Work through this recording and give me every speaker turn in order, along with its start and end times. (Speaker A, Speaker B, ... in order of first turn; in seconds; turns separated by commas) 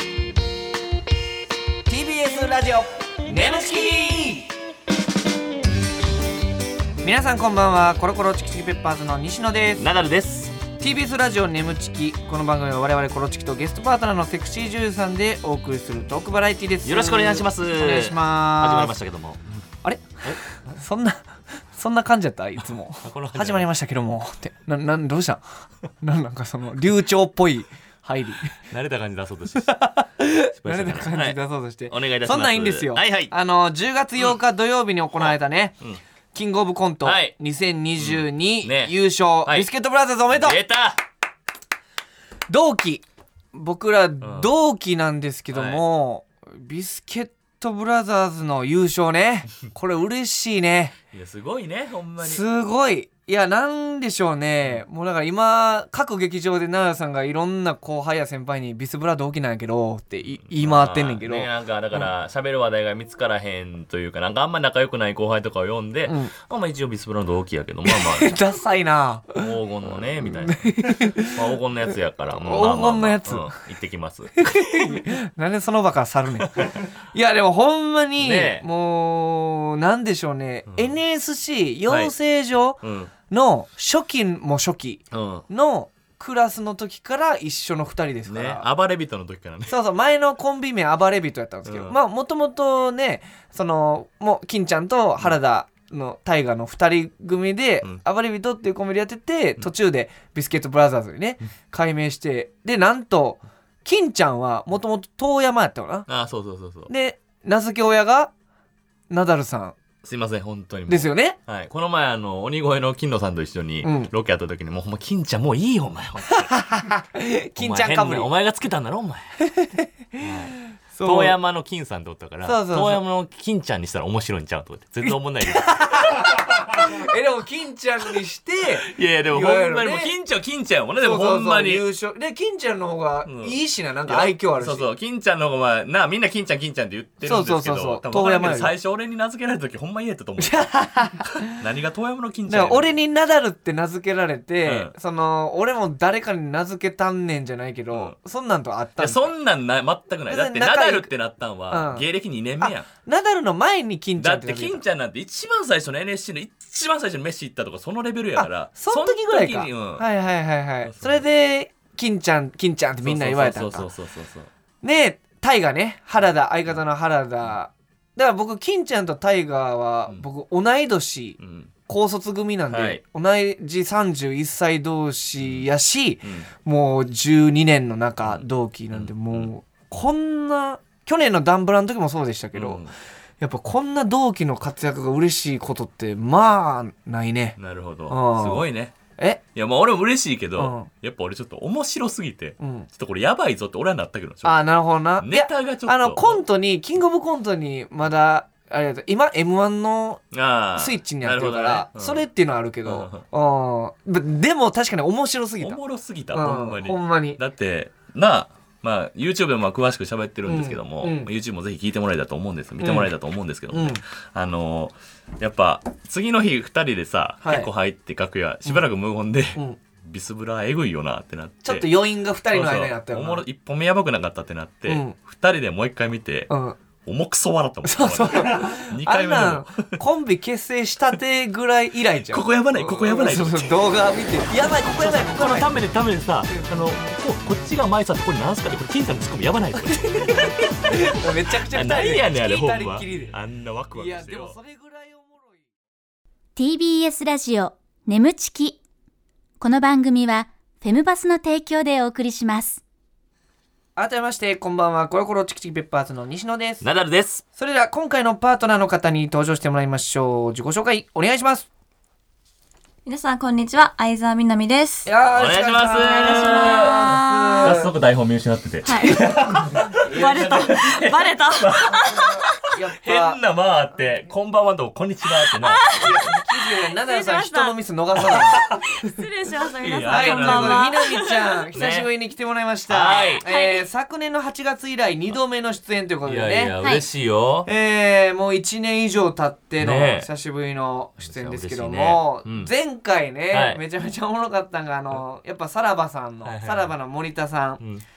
Speaker A: 1.9-4.5, Speaker A: 7.0-9.9, Speaker B: 9.8-10.6, Speaker A: 10.8-19.0, Speaker B: 16.8-19.6, Speaker A: 19.8-25.4, Speaker B: 20.2-20.6, Speaker B: 23.0-23.7, Speaker A: 26.0-28.6, Speaker B: 28.7-29.8, Speaker A: 29.6-35.8, Speaker B: 30.6-33.3, Speaker B: 35.2-36.0, Speaker A: 36.3-40.6, Speaker B: 37.0-37.3, Speaker B: 38.0-39.7, Speaker B: 40.3-41.0, Speaker A: 42.5-51.0, Speaker B: 44.2-44.5, Speaker B: 45.5-45.8, Speaker B: 51.1-52.4, Speaker A: 52.2-62.1, Speaker B: 60.5-68.3, Speaker A: 66.1-66.3, Speaker A: 67.9-71.6, Speaker B: 69.4-75.0, Speaker A: 72.4-73.5, Speaker A: 74.4-88.7, Speaker B: 76.4-76.9, Speaker B: 78.2-78.7, Speaker B: 81.9-82.1, Speaker B: 82.8-83.1, Speaker B: 85.1-85.5, Speaker B: 88.3-89.8, Speaker A: 89.7-106.1, Speaker B: 91.7-92.0, Speaker B: 106.1-106.9, Speaker A: 106.9-108.3, Speaker A: 109.1-109.8, Speaker B: 110.0-116.5, Speaker A: 110.9-111.4, Speaker A: 113.8-114.1, Speaker A: 116.3-118.3, Speaker B: 117.6-119.4, Speaker A: 119.5-121.4, Speaker B: 120.2-127.0, Speaker A: 122.4-123.0, Speaker A: 125.1-130.1, Speaker B: 128.8-131.8, Speaker A: 131.0-134.9, Speaker B: 133.2-140.7, Speaker A: 137.2-138.8, Speaker A: 140.4-141.5, Speaker B: 141.4-142.9, Speaker A: 142.5-149.3, Speaker B: 144.7-144.9, Speaker B: 149.0-152.9, Speaker A: 150.3-151.1, Speaker A: 151.7-152.1, Speaker A: 152.6-154.8, Speaker B: 154.2-160.1, Speaker A: 158.4-163.9, Speaker B: 160.8-161.2, Speaker B: 163.0-164.5, Speaker A: 164.8-182.8, Speaker B: 171.4-171.7, Speaker B: 172.7-173.0, Speaker B: 175.4-175.7, Speaker B: 176.2-176.5, Speaker B: 178.2-179.5, Speaker B: 182.5-182.9, Speaker A: 183.4-187.6, Speaker B: 187.6-188.9, Speaker A: 188.1-189.4, Speaker B: 189.5-194.7, Speaker A: 190.6-190.9, Speaker A: 192.6-192.9, Speaker A: 194.4-200.2, Speaker B: 195.2-196.4, Speaker B: 200.3-202.2, Speaker A: 200.8-205.8, Speaker B: 202.8-203.2, Speaker B: 205.6-221.9, Speaker A: 206.3-207.4, Speaker A: 210.5-211.3, Speaker A: 212.8-213.1, Speaker A: 213.7-214.0, Speaker A: 217.4-217.7, Speaker A: 221.6-223.4, Speaker B: 222.5-226.5, Speaker A: 224.9-225.2, Speaker A: 226.5-226.8, Speaker B: 227.1-230.0, Speaker A: 227.8-235.8, Speaker B: 232.3-233.8, Speaker B: 234.9-241.1, Speaker A: 236.5-236.8, Speaker A: 239.8-243.4, Speaker B: 241.7-244.6, Speaker A: 243.9-245.6, Speaker C: 246.6-248.8, Speaker C: 249.6-252.8, Speaker A: 254.0-256.9, Speaker B: 256.8-257.4, Speaker A: 257.6-261.7, Speaker D: 263.1-265.1, Speaker A: 265.1-267.9, Speaker B: 265.3-272.4, Speaker D: 266.0-267.7, Speaker D: 268.9-272.3, Speaker A: 269.9-270.6, Speaker A: 272.1-273.4, Speaker B: 273.0-276.0, Speaker D: 275.6-277.8, Speaker A: 276.0-278.6, Speaker B: 278.2-278.8, Speaker D: 278.9-281.7, Speaker B: 279.8-281.1, Speaker A: 280.1-286.8, Speaker B: 281.7-282.1, Speaker B: 282.9-283.4, Speaker D: 283.4-283.9, Speaker B: 286.2-287.7, Speaker A: 287.7-297.8, Speaker B: 289.8-290.3, Speaker B: 291.2-292.7, Speaker B: 293.5-293.8, Speaker B: 296.4-297.0